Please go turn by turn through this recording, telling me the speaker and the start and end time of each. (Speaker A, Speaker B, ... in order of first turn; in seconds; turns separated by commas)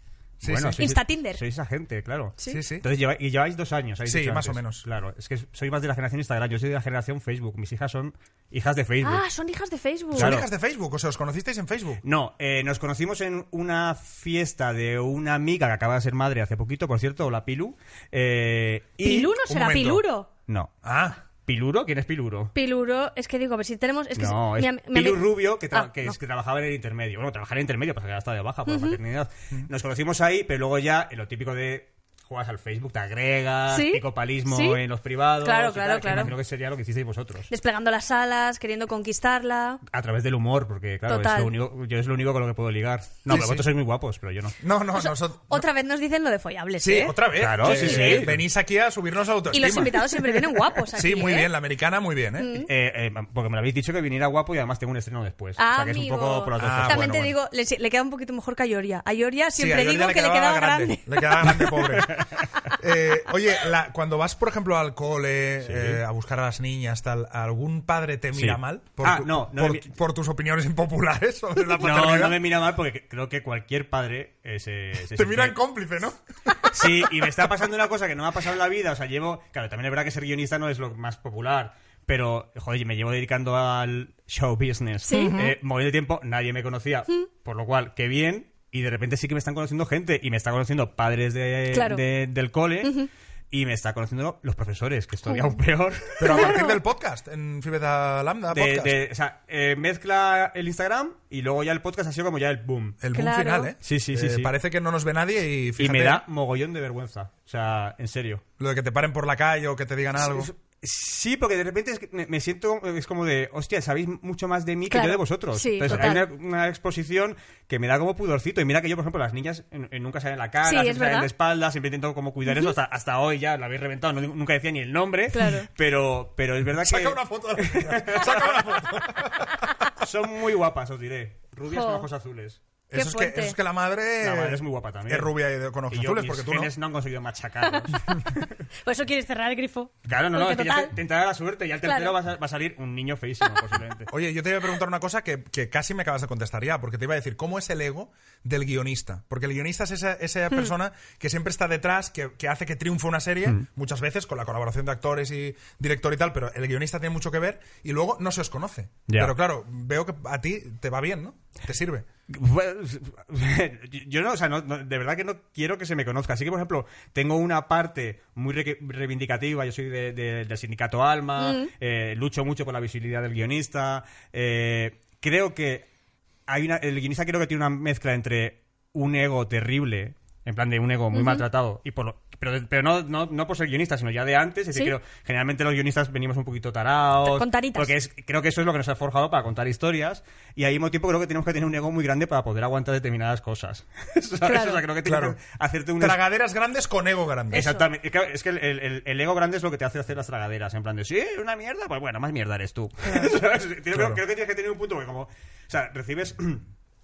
Speaker A: 0.4-0.8, Speaker B: 0.4-9.2, Speaker C: 0.7-1.4, Speaker A: 2.5-2.8, Speaker A: 4.0-4.8, Speaker C: 9.0-10.4, Speaker B: 10.2-10.5, Speaker A: 10.2-12.0, Speaker B: 12.0-19.3, Speaker C: 19.0-20.3, Speaker A: 19.5-20.0, Speaker B: 20.5-20.7, Speaker A: 20.8-21.2, Speaker B: 21.4-22.5, Speaker C: 22.5-26.1, Speaker B: 24.1-37.5, Speaker C: 28.6-29.0, Speaker C: 33.7-34.8, Speaker C: 35.4-36.3, Speaker C: 37.5-39.8, Speaker B: 39.9-44.6, Speaker C: 41.0-41.5, Speaker A: 43.3-43.6, Speaker A: 44.6-45.6, Speaker C: 45.0-48.3, Speaker A: 46.8-50.1, Speaker B: 47.3-48.4, Speaker C: 49.5-51.5, Speaker A: 50.9-52.5, Speaker C: 52.4-52.7, Speaker B: 52.5-57.3, Speaker C: 55.6-61.7, Speaker A: 56.6-57.3, Speaker A: 59.6-72.4, Speaker B: 61.6-62.7, Speaker B: 65.6-66.0, Speaker B: 68.3-69.9, Speaker B: 71.8-75.6, Speaker A: 75.1-77.5, Speaker B: 76.7-93.0, Speaker C: 85.0-85.4, Speaker A: 85.1-85.5, Speaker C: 91.7-92.0, Speaker C: 92.8-93.1, Speaker B: 93.5-96.6, Speaker C: 95.3-95.6, Speaker A: 96.2-99.0, Speaker C: 96.3-96.8, Speaker B: 98.5-103.0, Speaker A: 103.0-106.2, Speaker C: 103.1-103.7, Speaker B: 103.8-104.5, Speaker B: 105.8-108.4, Speaker A: 108.6-110.5, Speaker B: 110.2-129.1, Speaker C: 114.9-116.3, Speaker A: 115.8-116.2, Speaker C: 120.6-121.3, Speaker C: 122.5-122.7, Speaker C: 125.3-125.7, Speaker A: 126.8-129.8, Speaker B: 130.0-132.6, Speaker C: 131.7-132.1, Speaker A: 132.9-136.7, Speaker C: 132.9-133.6, Speaker B: 134.2-135.3, Speaker B: 135.9-138.5, Speaker C: 138.8-140.9, Speaker B: 140.0-144.1, Speaker C: 141.8-142.1, Speaker A: 144.1-162.1, Speaker B: 159.1-159.3, Speaker B: 162.3-175.9, Speaker C: 171.4-171.7, Speaker B: 176.5-196.2, Speaker C: 181.1-181.4, Speaker C: 187.2-187.9, Speaker C: 194.4-194.8, Speaker A: 195.0-195.4, Speaker A: 196.0-197.7, Speaker C: 197.5-197.9, Speaker B: 197.5-206.7, Speaker C: 203.0-203.4, Speaker A: 203.9-204.2